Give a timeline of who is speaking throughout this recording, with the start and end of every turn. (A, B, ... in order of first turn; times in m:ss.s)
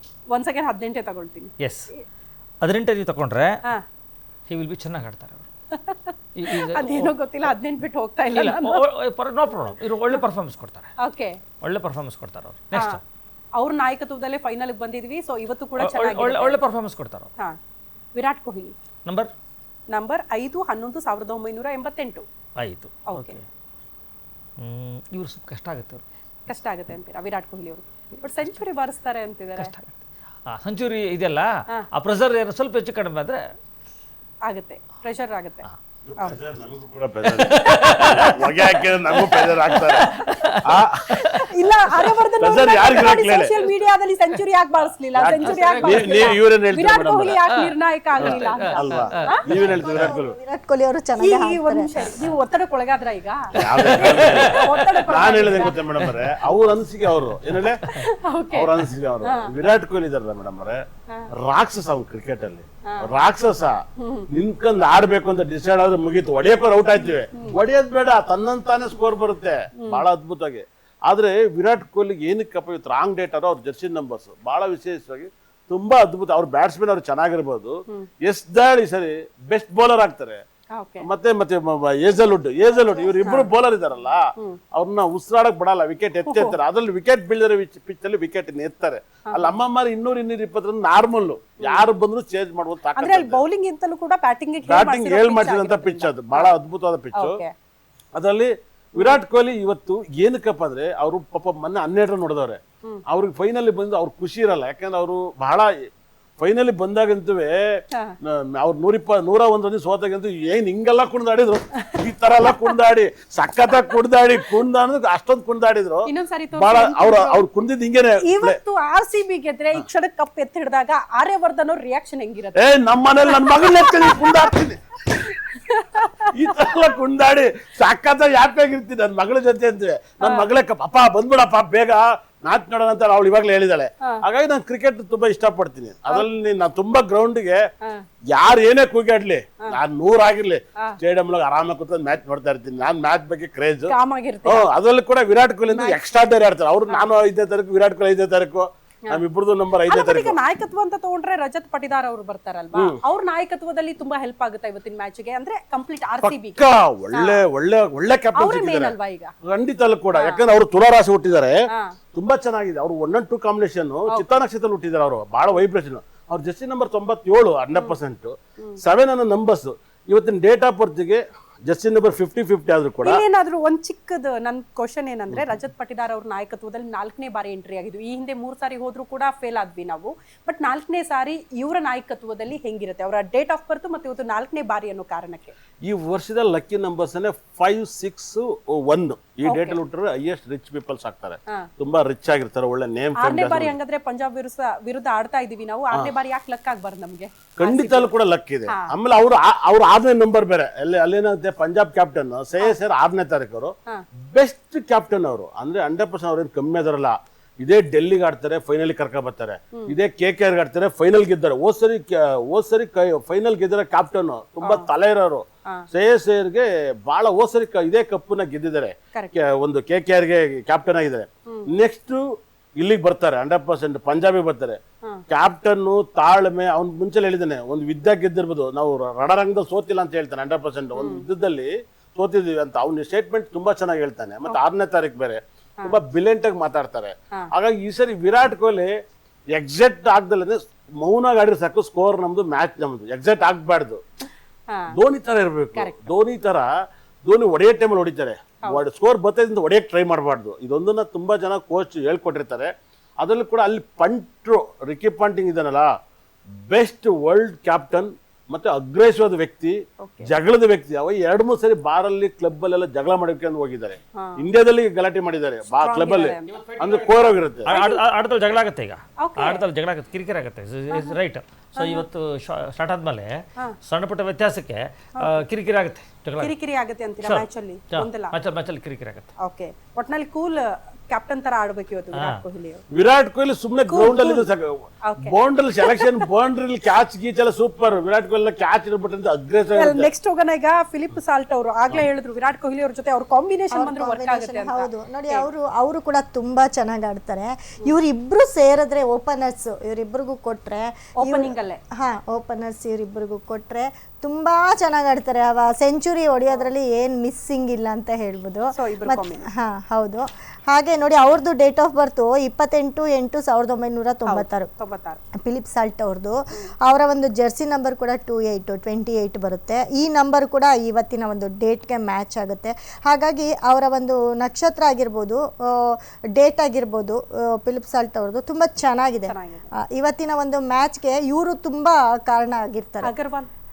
0:00.3-0:02.0 A
0:01.6-0:01.9 B
0:02.6-0:03.6 B
0:04.5-0:05.5 B
0:05.7-0:08.8 A
0:06.4-0:07.5 B
0:08.3-0:10.9 B
0:11.0-0:11.4 A
0:11.6-0:13.0 B
0:12.7-0:13.0 A
0:13.6-0:16.6 A
0:15.8-0:17.3 B
0:18.2-0:18.7 A
0:19.9-0:22.2 A
0:22.6-0:23.4 B
0:23.1-0:23.4 A
0:24.6-0:26.0 B
0:26.5-0:29.7 A
0:28.2-0:28.6 B
0:29.6-0:33.4 B
0:34.4-0:35.6 A
0:36.1-0:40.1 C
0:37.3-0:40.7 B
0:37.6-0:38.3 A
0:40.1-0:40.5 A
0:40.6-0:41.0 C
0:41.2-0:49.4 A
0:42.4-0:43.5 C
0:45.2-0:47.4 C
0:45.4-0:46.4 B
0:47.3-0:49.4 B
0:48.2-0:50.4 C
0:49.2-0:52.1 D
0:51.2-0:55.8 A
0:53.6-0:57.8 C
0:53.6-0:55.0 B
0:56.0-0:56.3 B
0:57.4-0:58.0 B
0:57.9-0:59.5 A
0:58.5-1:00.8 C
1:01.4-1:03.8 C
1:04.0-1:04.3 A
1:04.3-1:20.4 C
1:20.8-1:21.1 A
1:21.0-1:33.4 C
1:23.2-1:23.5 A
1:26.3-1:26.6 A
1:29.3-1:29.6 A
1:31.6-1:31.9 A
1:33.0-1:36.5 A
1:34.7-1:37.4 C
1:37.2-1:37.5 A
1:38.2-1:45.7 C
1:39.0-1:39.2 A
1:46.4-1:47.6 C
1:48.2-1:58.6 C
1:51.8-1:52.7 A
1:56.1-1:57.4 A
1:58.2-2:02.6 A
2:02.6-2:04.8 C
2:03.3-2:04.5 A
2:05.1-2:06.3 A
2:06.3-2:17.6 C
2:10.2-2:10.5 A
2:18.3-2:30.4 C
2:23.9-2:24.7 A
2:25.7-2:26.0 A
2:29.9-2:36.6 A
2:36.2-2:41.6 C
2:37.1-2:37.4 A
2:38.4-2:39.3 A
2:40.2-2:40.4 A
2:42.1-2:53.2 C
2:53.0-3:05.6 A
3:05.9-3:13.8 C
3:09.5-3:09.8 A
3:13.2-3:18.1 A
3:17.6-3:42.2 C
3:34.6-3:34.9 A
3:42.8-3:58.9 C
3:51.0-3:51.2 A
3:59.5-4:04.0 C
4:04.9-4:06.7 C
4:05.8-4:06.1 A
4:07.2-4:15.9 C
4:16.7-4:27.7 C
4:20.0-4:20.3 A
4:24.2-4:24.4 A
4:25.8-4:26.5 A
4:26.5-4:36.5 B
4:27.7-4:28.0 A
4:29.2-4:29.6 A
4:31.8-4:32.0 A
4:36.4-4:38.4 A
4:37.2-4:39.3 B
4:39.4-4:42.8 A
4:42.1-4:42.4 B
4:42.9-4:50.1 C
4:43.9-4:44.5 A
4:45.0-4:46.2 A
4:49.8-4:55.5 A
4:53.7-5:14.7 D
5:01.2-5:01.8 A
5:08.7-5:09.5 A
5:14.3-5:15.2 A
5:15.4-5:33.1 D
5:29.3-5:29.7 A
5:33.0-5:33.5 A